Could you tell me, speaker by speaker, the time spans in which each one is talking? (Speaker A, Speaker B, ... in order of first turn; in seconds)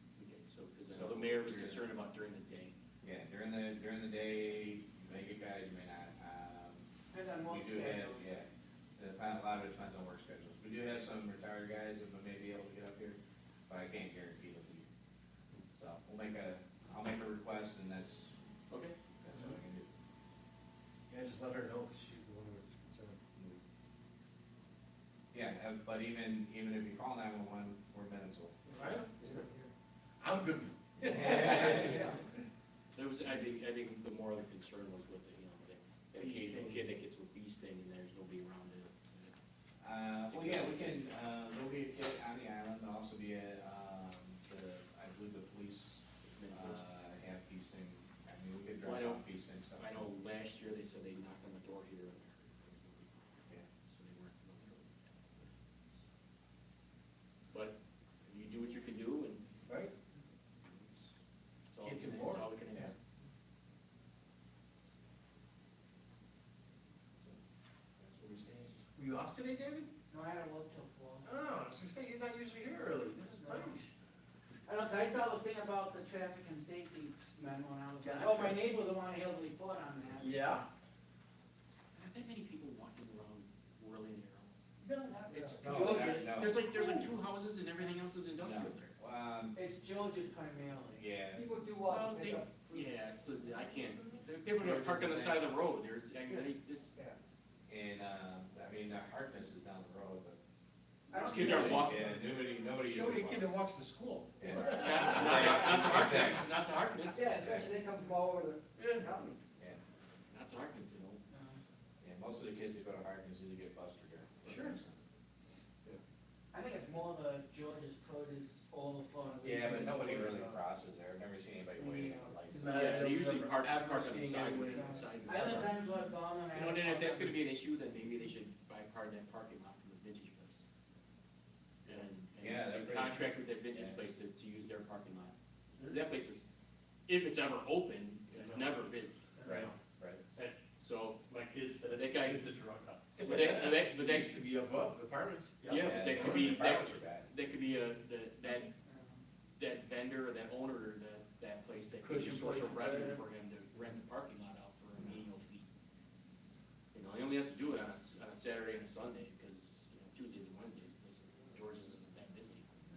Speaker A: 0.2-2.8, 18.7-19.0, 33.0-39.3, 40.3-40.9, 46.2-46.8, 48.8-56.1, 57.5-59.4, 61.7-62.9, 82.0-84.5, 85.5-88.9, 91.9-97.0, 101.2-102.1, 104.6-107.4, 110.3-111.2, 122.7-125.9, 126.5-130.6, 131.9-136.5, 137.1-139.6, 140.8-141.2, 141.9-142.4, 143.2-144.4, 145.7-148.7, 149.6-155.7, 156.9-162.7
Speaker B: 0.8-1.8, 3.0-6.9, 7.5-14.9, 15.8-18.4, 19.2-19.9, 23.4-23.6, 25.3-28.6, 31.1-32.0, 39.8-50.1, 68.0-68.8, 85.6-86.7, 88.4-89.6, 90.9-91.5, 97.7-100.4, 101.1-103.5, 104.4-106.5, 107.3-107.6, 112.0-115.0, 119.4-122.7, 132.4-134.1, 139.4-140.2, 145.7-147.3
Speaker C: 7.1-8.4, 36.2-36.6, 70.1-71.3, 73.4-73.8, 74.7-80.4, 85.7-86.8, 89.5-91.0, 91.6-92.0, 101.1-102.5, 107.4-108.0, 111.3-111.6, 116.5-120.6, 121.8-122.4, 124.7-127.4, 148.8-149.1
Speaker D: 21.1-23.2, 28.7-29.5, 30.2-32.2, 61.8-62.9, 69.0-69.9, 71.2-74.0, 78.0-78.7, 80.2-80.7, 84.8-86.0, 102.8-106.3, 108.8-109.1, 114.5-114.8, 122.5-125.4, 143.2-146.5, 152.0-153.2
Speaker E: 91.3-92.8, 107.2-109.4
Speaker F: 138.3-139.7, 140.3-143.3, 145.6-145.9